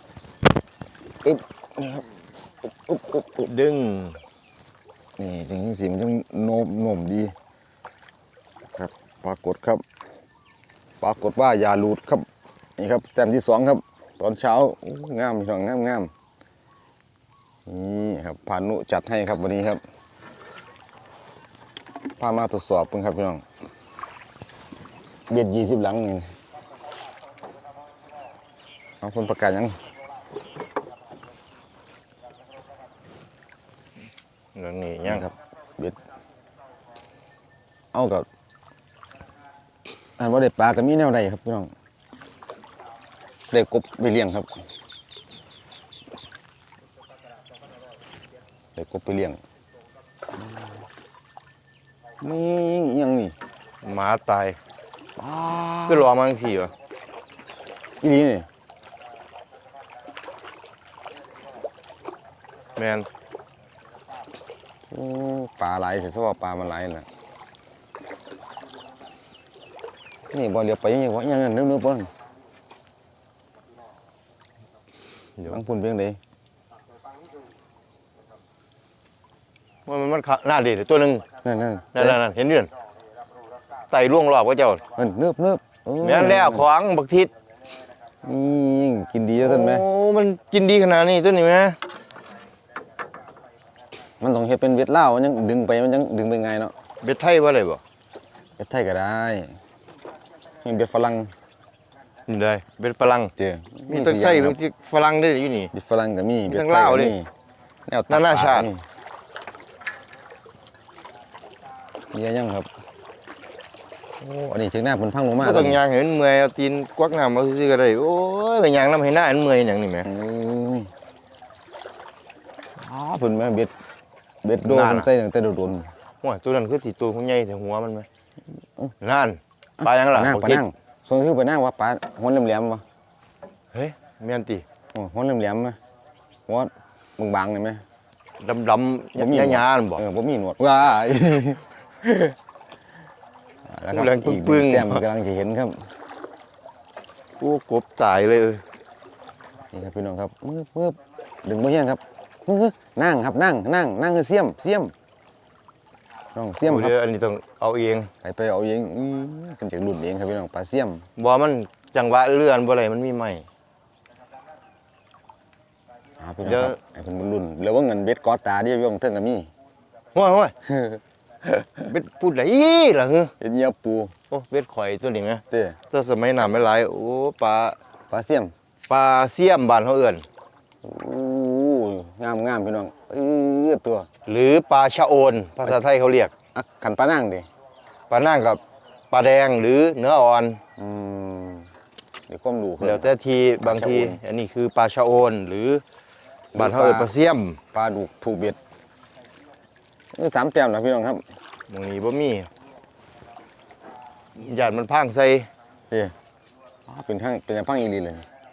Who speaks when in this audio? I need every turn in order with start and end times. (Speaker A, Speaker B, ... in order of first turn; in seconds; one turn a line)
Speaker A: 1.2-2.0
Speaker A: 2.6-3.5
Speaker B: 3.4-4.2
Speaker A: 5.2-7.3
Speaker A: 8.7-9.8
Speaker A: 11.0-16.1
Speaker A: 17.6-19.8
Speaker A: 22.2-23.4
Speaker A: 25.3-26.3
Speaker A: 29.0-29.8
Speaker B: 34.5-35.3
Speaker A: 35.0-36.0
Speaker A: 37.9-38.2
Speaker A: 40.2-41.7
Speaker A: 43.5-44.5
Speaker A: 48.8-49.4
Speaker A: 50.4-50.7
Speaker A: 52.2-53.3
Speaker B: 53.8-54.6
Speaker A: 55.2-56.1
Speaker B: 55.9-56.7
Speaker A: 58.0-58.5
Speaker B: 62.8-63.1
Speaker A: 64.9-67.0
Speaker A: 70.3-72.1
Speaker A: 75.5-76.2
Speaker B: 79.8-81.2
Speaker A: 81.4-82.2
Speaker B: 81.9-82.7
Speaker B: 83.9-84.8
Speaker A: 85.0-86.6
Speaker B: 86.0-87.3
Speaker A: 88.2-89.8
Speaker B: 89.4-91.8
Speaker A: 94.2-96.7
Speaker B: 97.0-97.8
Speaker A: 98.6-99.5
Speaker A: 100.6-101.3
Speaker B: 102.3-103.3
Speaker A: 103.4-104.6
Speaker B: 103.9-105.7
Speaker A: 105.7-107.3
Speaker B: 106.5-107.2
Speaker A: 107.9-108.8
Speaker B: 108.1-108.7
Speaker A: 112.1-112.7
Speaker A: 114.2-115.8
Speaker B: 115.4-120.1
Speaker A: 120.0-120.9
Speaker A: 122.8-123.7
Speaker A: 124.4-125.9
Speaker B: 124.6-125.1
Speaker B: 126.2-128.1
Speaker B: 129.0-130.6
Speaker A: 129.8-132.8
Speaker B: 133.7-134.6
Speaker A: 134.9-135.8
Speaker A: 136.5-137.8
Speaker B: 138.4-140.0
Speaker A: 139.2-142.3
Speaker A: 143.7-145.9
Speaker B: 143.9-145.0
Speaker B: 147.4-148.6
Speaker A: 149.7-154.9
Speaker A: 156.3-156.9
Speaker B: 156.7-158.1
Speaker A: 158.2-161.0
Speaker B: 161.2-163.5
Speaker A: 166.2-169.5
Speaker B: 166.4-166.8
Speaker B: 170.1-170.5
Speaker A: 170.7-171.0
Speaker B: 171.8-173.3
Speaker A: 173.4-174.1
Speaker B: 174.3-177.8
Speaker A: 175.5-175.8
Speaker A: 178.1-178.5
Speaker B: 178.9-180.2
Speaker A: 180.8-184.1
Speaker B: 184.2-186.3
Speaker A: 186.5-187.5
Speaker B: 188.1-190.6
Speaker A: 190.8-191.7
Speaker A: 192.3-194.2
Speaker B: 192.8-195.8
Speaker A: 196.5-197.1
Speaker B: 196.6-197.6
Speaker A: 197.7-198.6
Speaker A: 200.1-201.2
Speaker B: 201.7-202.5
Speaker B: 204.3-205.5
Speaker A: 206.9-208.2